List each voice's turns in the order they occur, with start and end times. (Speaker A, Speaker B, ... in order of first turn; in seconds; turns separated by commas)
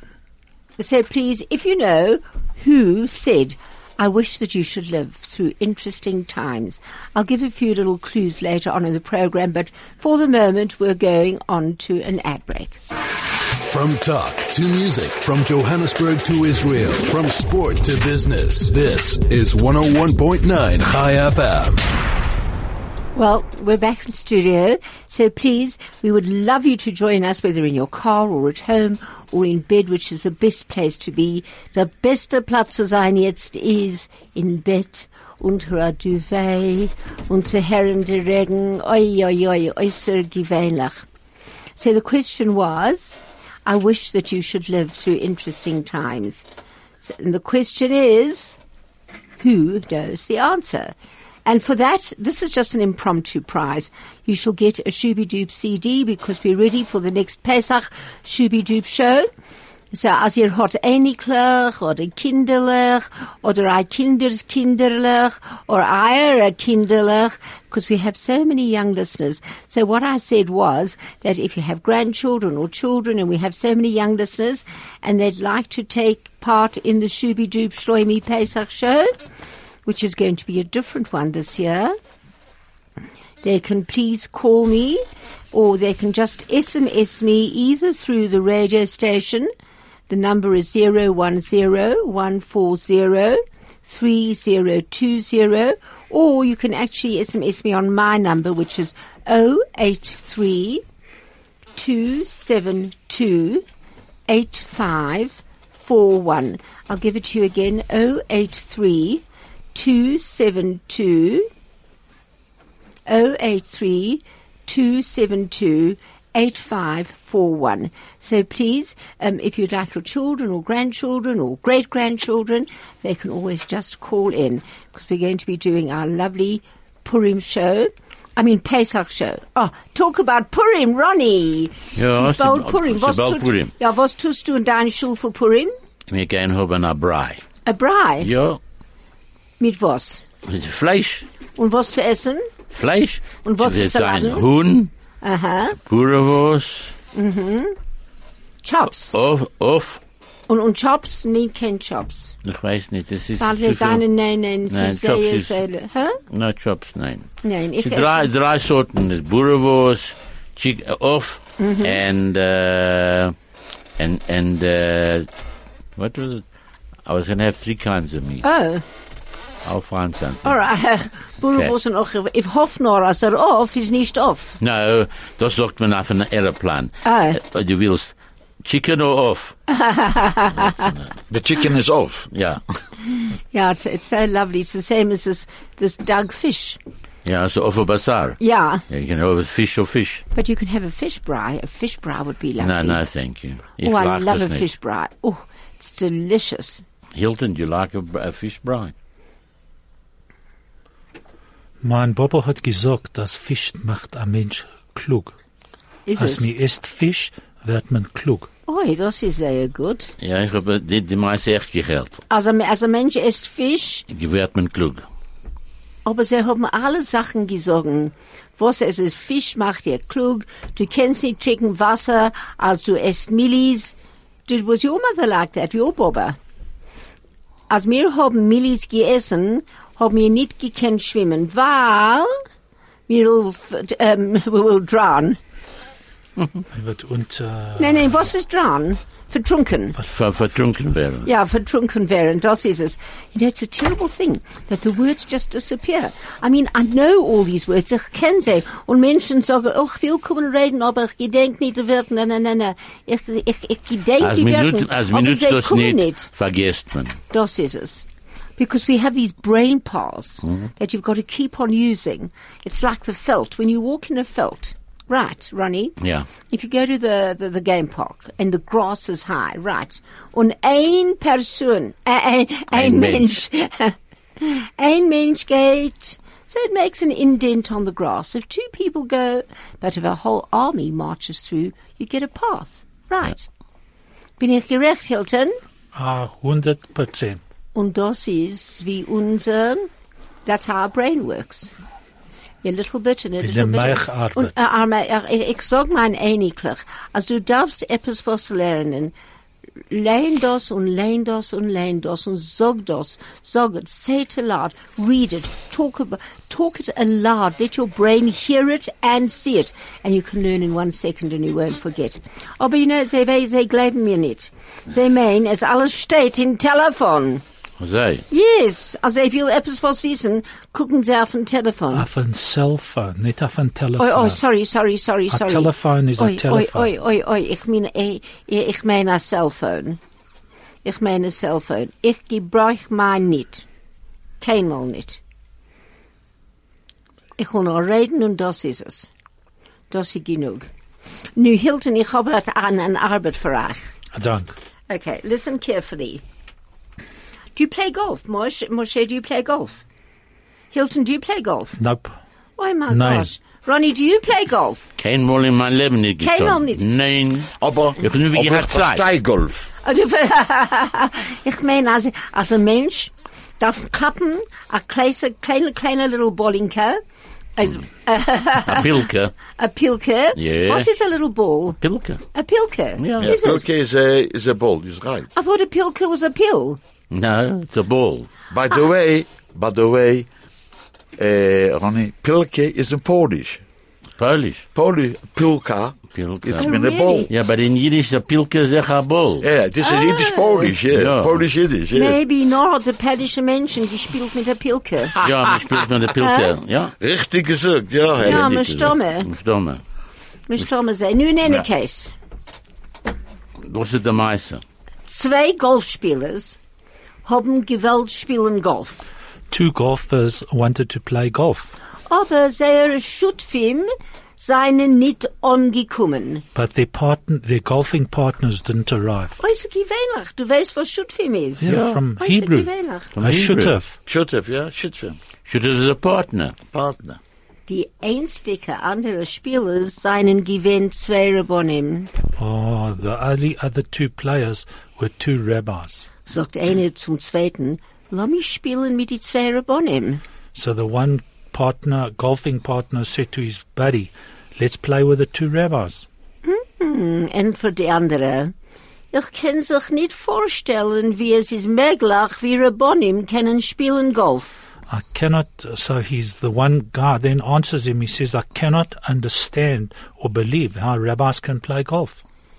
Speaker A: 0.8-12.8, Speaker B: 13.7-21.9, Speaker A: 23.1-41.0, Speaker A: 41.8-46.5, Speaker A: 47.0-48.6, Speaker A: 49.4-50.9, Speaker A: 51.5-59.3, Speaker A: 59.9-79.1, Speaker A: 79.9-82.0, Speaker A: 83.4-85.0, Speaker A: 85.5-89.5, Speaker A: 90.1-100.8, Speaker A: 101.8-103.7, Speaker A: 104.3-109.2, Speaker A: 109.7-111.5, Speaker A: 113.1-135.7, Speaker C: 131.9-133.7, Speaker C: 136.1-137.4, Speaker A: 137.7-138.3, Speaker C: 138.2-138.6, Speaker A: 139.6-140.2, Speaker C: 140.5-141.3, Speaker A: 141.6-142.5, Speaker C: 142.7-144.9, Speaker A: 143.4-144.4, Speaker A: 145.2-145.8, Speaker C: 145.8-146.9, Speaker A: 147.1-147.8, Speaker A: 148.6-149.1, Speaker C: 149.1-150.0, Speaker A: 150.5-152.3, Speaker C: 152.4-154.1, Speaker A: 153.4-156.2, Speaker C: 154.7-155.6, Speaker C: 156.3-163.3, Speaker A: 157.4-158.3, Speaker A: 161.6-162.0, Speaker C: 164.0-165.3, Speaker C: 166.0-166.4, Speaker C: 167.1-168.4, Speaker A: 168.4-168.8, Speaker C: 169.6-170.6, Speaker A: 170.4-174.6, Speaker C: 174.6-179.6, Speaker A: 177.1-177.4, Speaker A: 179.7-180.9, Speaker C: 180.6-181.1, Speaker D: 181.3-182.3, Speaker C: 182.3-182.6, Speaker A: 183.2-186.8, Speaker C: 187.2-190.2, Speaker A: 188.4-188.8, Speaker A: 190.3-193.0, Speaker C: 192.6-194.7, Speaker A: 193.8-196.8, Speaker C: 197.2-198.9, Speaker E: 201.8-205.3, Speaker A: 206.1-206.5, Speaker E: 206.2-208.5, Speaker A: 208.7-210.1, Speaker C: 210.2-212.2, Speaker A: 212.3-214.1, Speaker C: 214.1-215.1, Speaker A: 216.1-223.9, Speaker A: 224.5-226.4, Speaker A: 227.7-232.4, Speaker A: 233.1-235.4, Speaker E: 236.7-238.3, Speaker A: 237.8-240.0, Speaker C: 240.1-241.3, Speaker A: 241.2-256.3, Speaker C: 254.2-257.2, Speaker A: 257.3-258.0, Speaker A: 258.6-266.0, Speaker C: 266.0-266.3, Speaker A: 266.5-283.5, Speaker C: 272.7-273.3, Speaker A: 284.4-285.6, Speaker E: 285.9-287.4, Speaker A: 287.8-289.9, Speaker A: 290.5-291.7, Speaker A: 292.6-299.1, Speaker E: 293.4-294.6, Speaker A: 299.9-317.4, Speaker C: 317.8-318.2, Speaker A: 318.3-322.1, Speaker E: 321.9-324.4, Speaker A: 324.0-330.0, Speaker E: 325.3-326.9, Speaker A: 330.9-333.6, Speaker A: 334.4-335.2, Speaker A: 337.4-339.1, Speaker A: 339.9-340.7, Speaker A: 341.4-343.8, Speaker E: 344.1-344.5, Speaker A: 344.9-346.2, Speaker A: 347.6-349.8, Speaker A: 350.7-351.8, Speaker E: 351.8-352.2, Speaker A: 352.6-354.9, Speaker E: 352.9-353.3, Speaker C: 355.0-359.0, Speaker A: 356.2-356.8, Speaker D: 357.6-359.7, Speaker A: 359.8-367.0, Speaker A: 367.6-368.9, Speaker C: 368.6-369.3, Speaker A: 369.6-371.8, Speaker C: 370.4-370.9, Speaker C: 371.8-372.2, Speaker A: 372.3-373.7, Speaker C: 373.0-373.4, Speaker D: 373.2-375.3, Speaker A: 375.4-376.8, Speaker C: 377.1-378.3, Speaker D: 378.5-380.3, Speaker D: 381.2-383.6, Speaker C: 384.2-384.6, Speaker D: 384.8-387.3, Speaker C: 386.1-386.7, Speaker A: 386.6-387.3, Speaker C: 387.3-389.5, Speaker D: 389.4-392.2, Speaker A: 389.8-390.7, Speaker C: 390.9-391.4, Speaker A: 391.9-395.3, Speaker C: 395.2-396.9, Speaker A: 396.2-396.5, Speaker D: 397.0-398.5, Speaker C: 398.2-399.8, Speaker A: 398.2-399.3, Speaker A: 400.5-402.1, Speaker C: 403.6-404.6, Speaker A: 405.1-406.6, Speaker A: 407.2-409.1, Speaker E: 409.5-411.7, Speaker A: 412.1-416.4, Speaker E: 416.6-419.4, Speaker A: 419.4-423.1, Speaker E: 421.6-422.7, Speaker C: 421.7-422.0, Speaker C: 423.2-423.8, Speaker E: 423.2-424.0, Speaker D: 424.1-425.2, Speaker C: 425.5-426.6, Speaker D: 426.7-427.2, Speaker A: 427.7-432.1, Speaker E: 432.4-436.1, Speaker A: 436.3-440.2, Speaker E: 440.6-446.1, Speaker A: 446.4-448.5, Speaker A: 449.1-454.6, Speaker E: 454.9-462.2